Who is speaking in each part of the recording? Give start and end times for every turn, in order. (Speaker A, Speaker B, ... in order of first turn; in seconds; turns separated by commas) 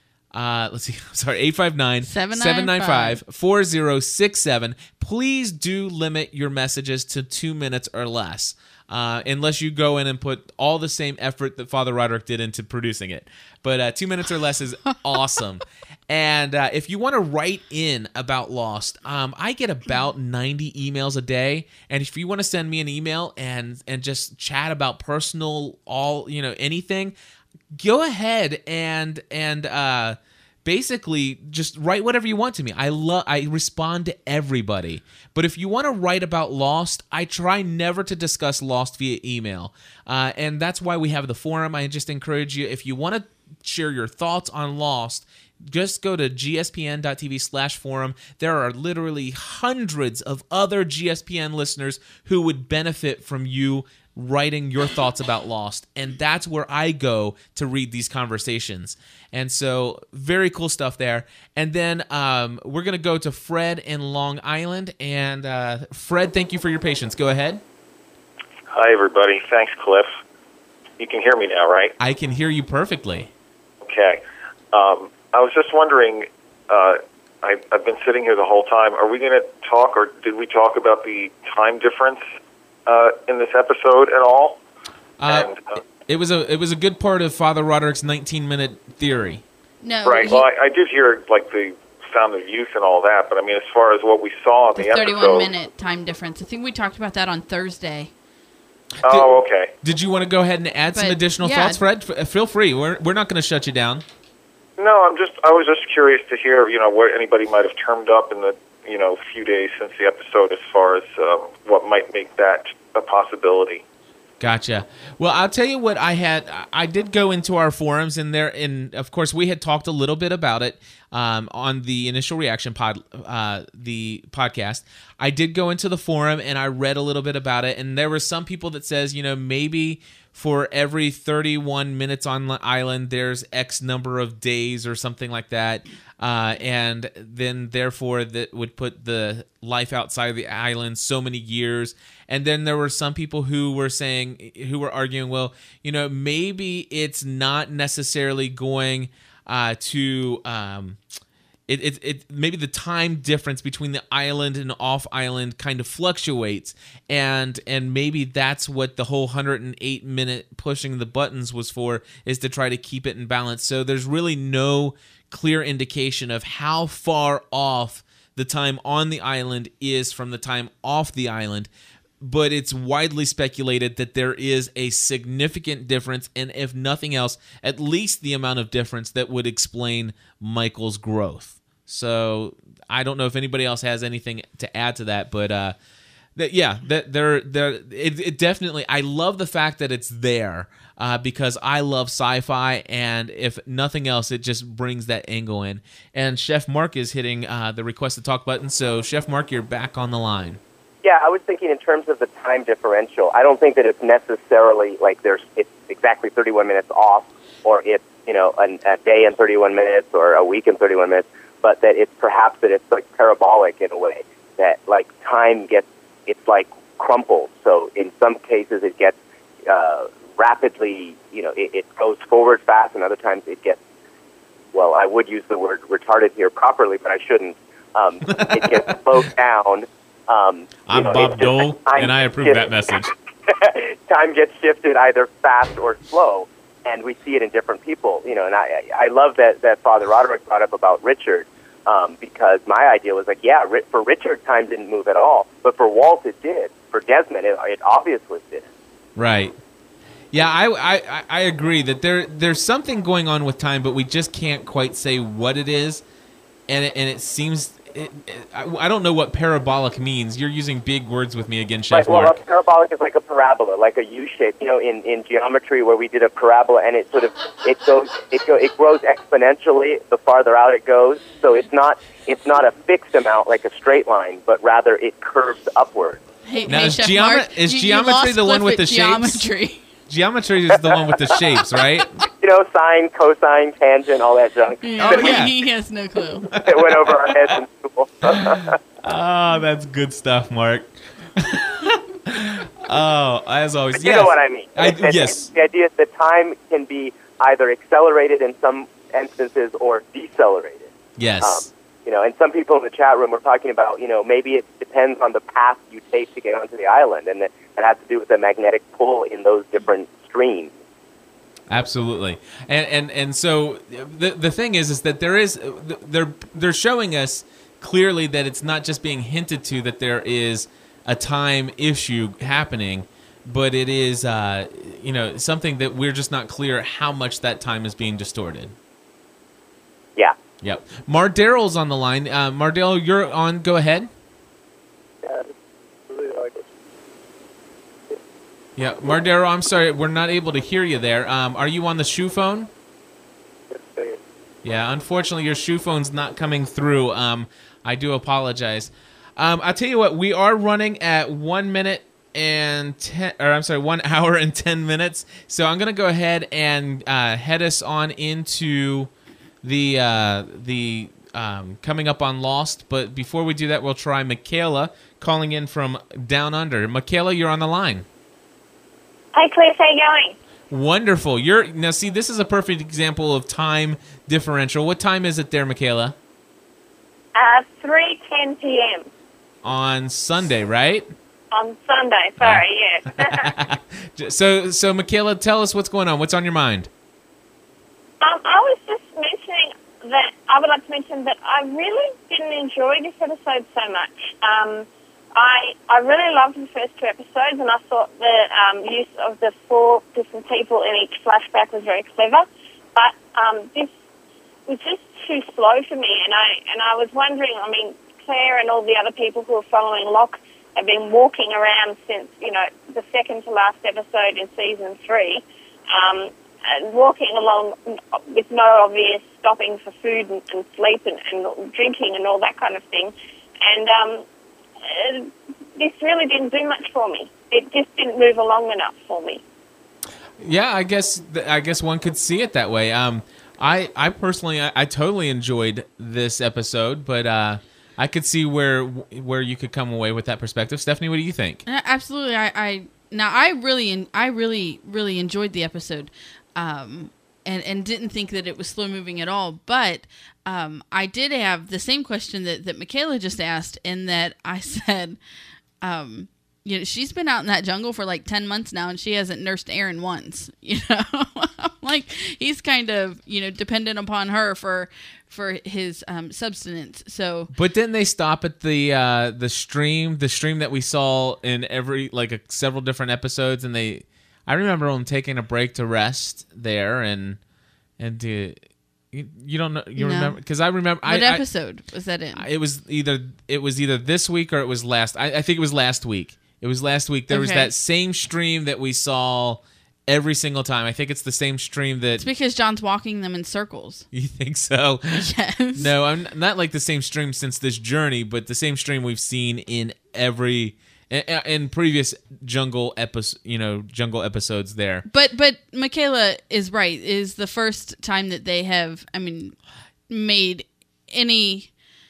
Speaker A: 0.3-27.1, Speaker B: 2.0-3.2, Speaker A: 27.7-67.6, Speaker C: 68.7-70.1, Speaker C: 71.0-71.9, Speaker A: 72.0-73.3, Speaker C: 73.8-74.2, Speaker C: 74.7-82.3, Speaker C: 82.9-84.6, Speaker A: 85.2-85.5, Speaker C: 85.2-85.8, Speaker A: 86.1-89.4, Speaker B: 89.8-90.5, Speaker C: 90.0-95.5, Speaker B: 94.8-98.1, Speaker C: 99.0-99.7, Speaker A: 99.1-104.0, Speaker B: 100.9-101.8, Speaker C: 104.8-113.8, Speaker A: 114.4-151.0, Speaker A: 151.7-171.7, Speaker A: 172.2-185.8, Speaker A: 186.4-200.6, Speaker D: 201.0-223.8, Speaker D: 224.7-232.8, Speaker A: 228.3-228.8, Speaker A: 230.9-233.1, Speaker D: 233.5-248.7, Speaker A: 249.2-249.6, Speaker A: 250.3-256.0, Speaker A: 256.7-262.3, Speaker D: 261.9-276.2, Speaker B: 276.4-279.9, Speaker A: 276.7-279.5, Speaker A: 280.1-282.1, Speaker D: 282.4-285.5, Speaker B: 284.8-286.5, Speaker A: 285.0-285.5, Speaker A: 286.5-287.5, Speaker D: 286.6-288.8, Speaker A: 288.3-295.5, Speaker D: 294.0-310.7, Speaker A: 301.2-301.7, Speaker A: 311.7-328.8, Speaker A: 330.6-334.1, Speaker A: 338.8-342.7, Speaker A: 344.6-359.1, Speaker A: 359.6-368.1, Speaker E: 369.3-370.4, Speaker A: 370.7-376.1, Speaker E: 377.4-379.1, Speaker A: 379.6-381.1, Speaker E: 381.5-383.6, Speaker A: 382.4-386.9, Speaker E: 388.2-403.9, Speaker E: 404.7-424.3, Speaker E: 424.8-429.4, Speaker A: 430.4-441.6, Speaker B: 441.7-455.2, Speaker B: 455.8-467.5, Speaker A: 467.5-477.4, Speaker A: 478.0-478.6, Speaker A: 479.1-481.4, Speaker B: 480.0-480.4, Speaker B: 481.0-482.5, Speaker A: 482.4-492.2, Speaker B: 487.3-487.7, Speaker B: 492.2-494.1, Speaker A: 494.1-495.2, Speaker B: 495.2-495.9, Speaker A: 495.8-505.1, Speaker B: 505.1-509.6, Speaker B: 510.1-511.7